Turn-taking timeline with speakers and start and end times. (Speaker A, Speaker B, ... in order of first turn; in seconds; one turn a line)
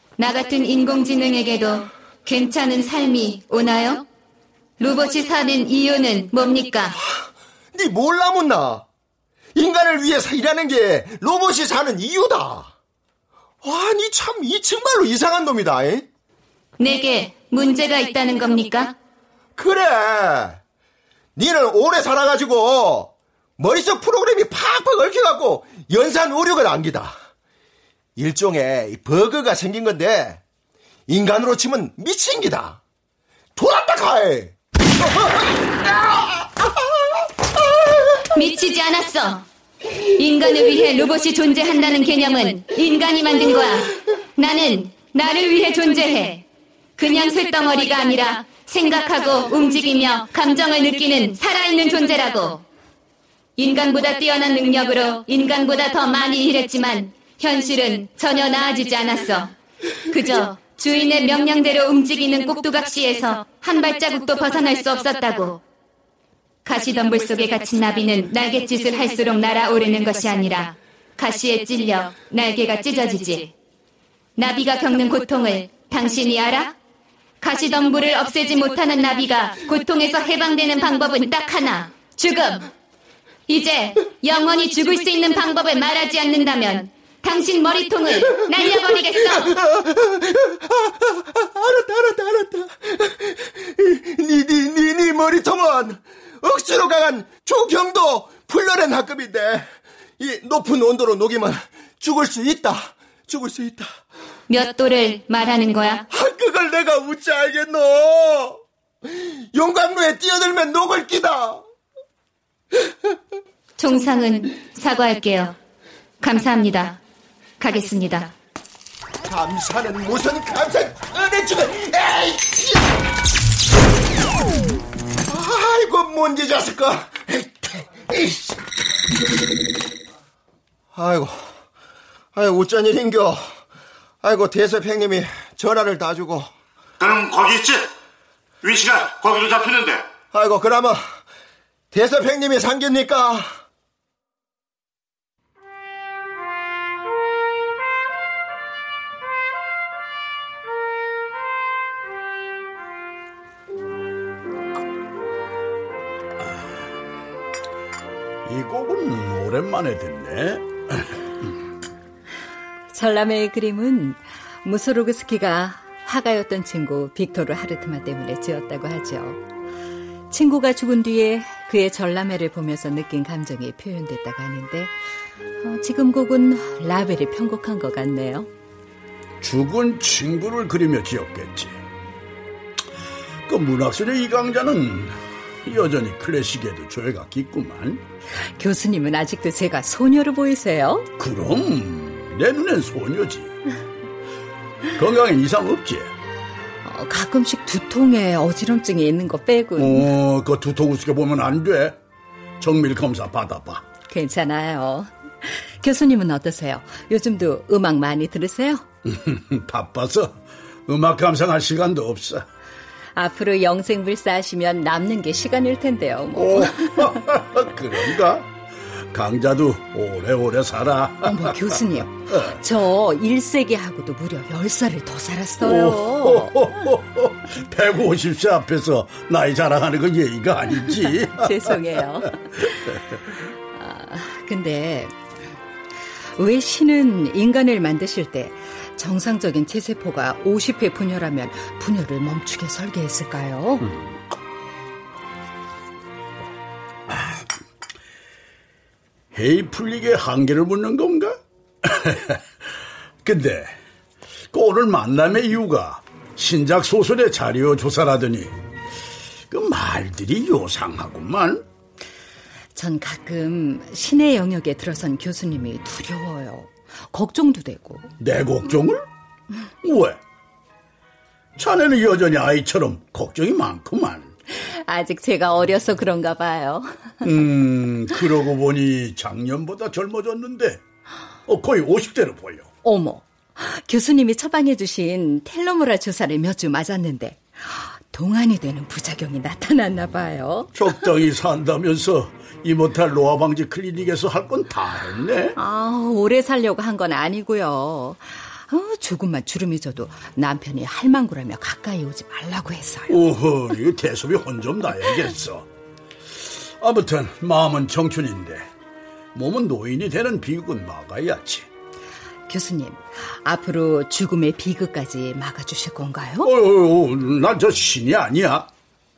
Speaker A: 0.2-4.1
Speaker A: 4.8-7.0
Speaker B: 7.0-8.8
Speaker B: 9.6-12.7
Speaker B: 13.6-16.1
Speaker A: 16.8-19.0
Speaker B: 19.6-20.6
Speaker B: 21.4-27.2
Speaker B: 28.2-30.4
Speaker B: 31.1-32.8
Speaker B: 33.6-36.9
Speaker A: 38.3-39.5
Speaker A: 40.1-46.5
Speaker A: 47.0-52.6
Speaker A: 53.6-59.5
Speaker A: 60.1-65.6
Speaker A: 66.7-73.5
Speaker A: 74.4-76.8
Speaker A: 77.4-82.7
Speaker A: 83.5-89.5
Speaker B: 88.6-104.0
Speaker A: 104.5-106.1
Speaker B: 106.1-111.6
Speaker A: 113.8-115.6
Speaker A: 116.2-117.0
Speaker A: 117.6-118.3
Speaker B: 119.2-122.9
Speaker B: 125.3-128.6
Speaker B: 130.9-131.6
Speaker B: 132.3-133.5
Speaker B: 134.2-136.5
Speaker C: 137.0-137.9
Speaker C: 138.6-140.1
Speaker B: 140.3-141.2
Speaker B: 141.9-143.5
Speaker D: 158.5-161.2
Speaker E: 162.9-169.4
Speaker E: 170.3-174.9
Speaker E: 175.6-178.5
Speaker D: 179.4-181.8
Speaker D: 183.5-188.0
Speaker E: 188.6-191.1
Speaker D: 191.2-193.5
Speaker D: 195.0-196.1
Speaker E: 196.8-200.1
Speaker D: 199.8-202.0
Speaker D: 202.6-203.9
Speaker E: 204.1-208.8
Speaker D: 209.1-210.3
Speaker D: 210.9-212.4
Speaker E: 213.2-217.2
Speaker D: 216.3-218.5
Speaker D: 219.1-221.5
Speaker E: 221.2-226.7
Speaker D: 222.3-222.6
Speaker D: 225.6-231.5
Speaker E: 231.2-232.7
Speaker E: 233.8-235.1
Speaker E: 236.4-243.9
Speaker D: 243.8-244.1
Speaker D: 249.3-252.4
Speaker D: 253.2-253.8
Speaker D: 254.5-258.5
Speaker D: 259.5-261.6
Speaker E: 262.8-268.1
Speaker D: 268.2-269.1
Speaker D: 269.8-270.2
Speaker D: 271.6-274.3
Speaker E: 274.5-277.2
Speaker D: 277.2-280.8
Speaker D: 281.5-282.7
Speaker E: 282.8-290.9
Speaker D: 290.7-295.6
Speaker E: 295.6-303.2
Speaker D: 303.1-305.7
Speaker D: 306.8-308.7
Speaker D: 309.4-311.7
Speaker E: 312.5-316.5
Speaker D: 316.4-318.7